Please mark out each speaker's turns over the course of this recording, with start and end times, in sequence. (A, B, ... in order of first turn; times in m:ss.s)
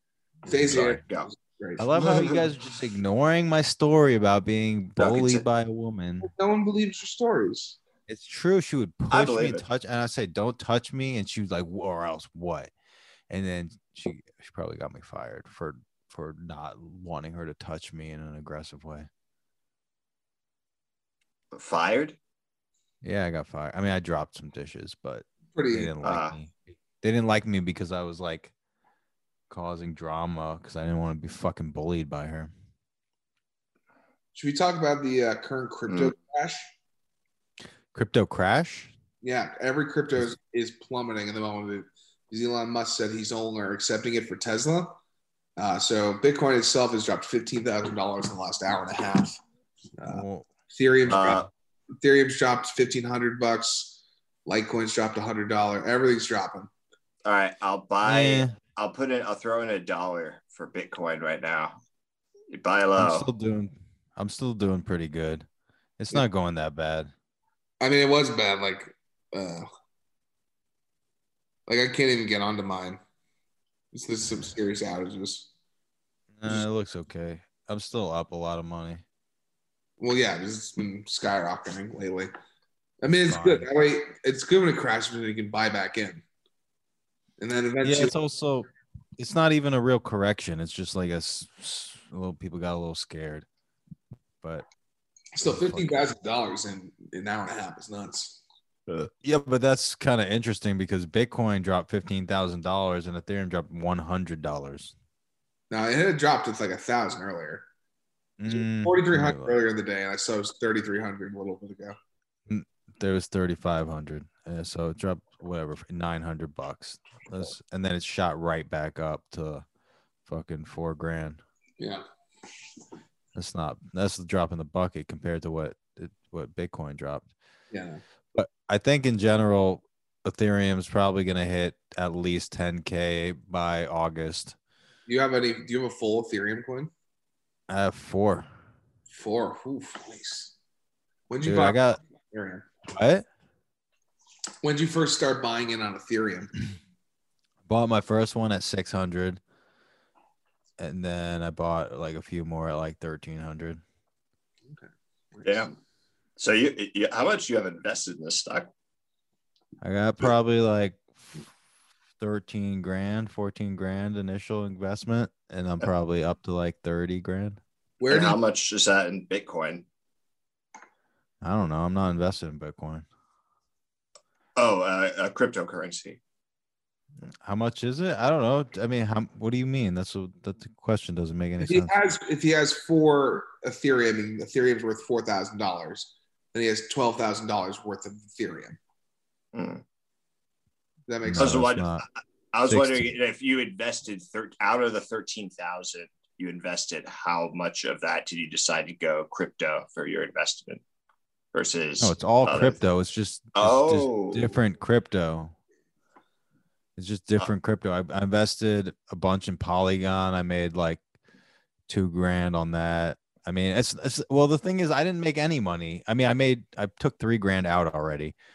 0:00.4-0:02.4 A
0:00.6-0:01.0 B
0:00.6-0:01.3 C
0:01.8-0:06.3 B
0:02.0-0:02.4 C
0:05.0-0:05.4 C
0:06.2-0:07.8 A
0:08.1-0:12.7 B
0:09.1-0:09.6 C
0:13.3-0:19.1 B
0:21.5-0:22.2 C
0:23.0-0:28.5 B
0:25.5-0:26.0 A
0:26.0-0:26.3 C
0:29.5-0:32.5 B
0:34.3-0:36.7 A
0:35.9-0:36.1 C
0:37.9-0:38.9 B
0:39.2-0:45.0 A
0:45.6-0:49.4 A
0:50.0-0:51.5 A
0:50.1-0:50.5 B
0:51.1-0:51.5 C
0:52.0-0:56.7 A
0:57.2-1:01.8 C
0:58.0-0:58.6 B
1:02.5-1:03.3 C
1:03.0-1:05.4 B
1:06.0-1:07.1 B
1:07.8-1:09.7 A
1:11.7-1:13.0 A
1:13.9-1:15.5 A
1:16.3-1:19.0 B
1:20.0-1:22.3 A
1:23.0-1:26.2 A
1:23.3-1:23.7 B
1:27.4-1:28.1 A
1:27.8-1:33.4 B
1:35.4-1:38.4 A
1:35.4-1:36.0 B
1:39.1-1:44.9 B
1:45.7-1:47.6 A
1:48.4-1:49.6 B
1:48.5-1:52.0 A
1:52.5-1:59.6 B
2:00.2-2:01.4 B
2:03.3-2:07.3 B
2:07.7-2:08.0 A
2:08.3-2:14.6 B
2:15.1-2:16.9 A
2:17.7-2:18.5 B
2:19.1-2:20.5 A
2:21.3-2:22.6 A
2:21.4-2:22.0 B
2:22.9-2:23.2 B
2:24.6-2:26.5 A
2:27.6-2:29.4 B
2:30.8-2:33.8 B
2:34.7-2:35.7 A
2:35.4-2:35.7 C
2:36.4-2:38.7 C
2:39.8-2:41.4 B
2:42.2-2:47.6 B
2:48.0-2:48.4 A
2:48.1-2:49.8 C
2:51.4-2:53.0 B
2:54.6-2:56.2 C
2:57.3-3:01.9 B
3:01.6-3:08.8 A
3:09.5-3:09.8 C
3:11.1-3:11.6 A
3:11.2-3:12.0 B
3:11.4-3:20.8 C
3:12.7-3:13.1 B
3:21.5-3:22.8 C
3:22.0-3:25.5 B
3:23.5-3:24.5 C
3:27.0-3:31.0 B
3:31.9-3:38.3 B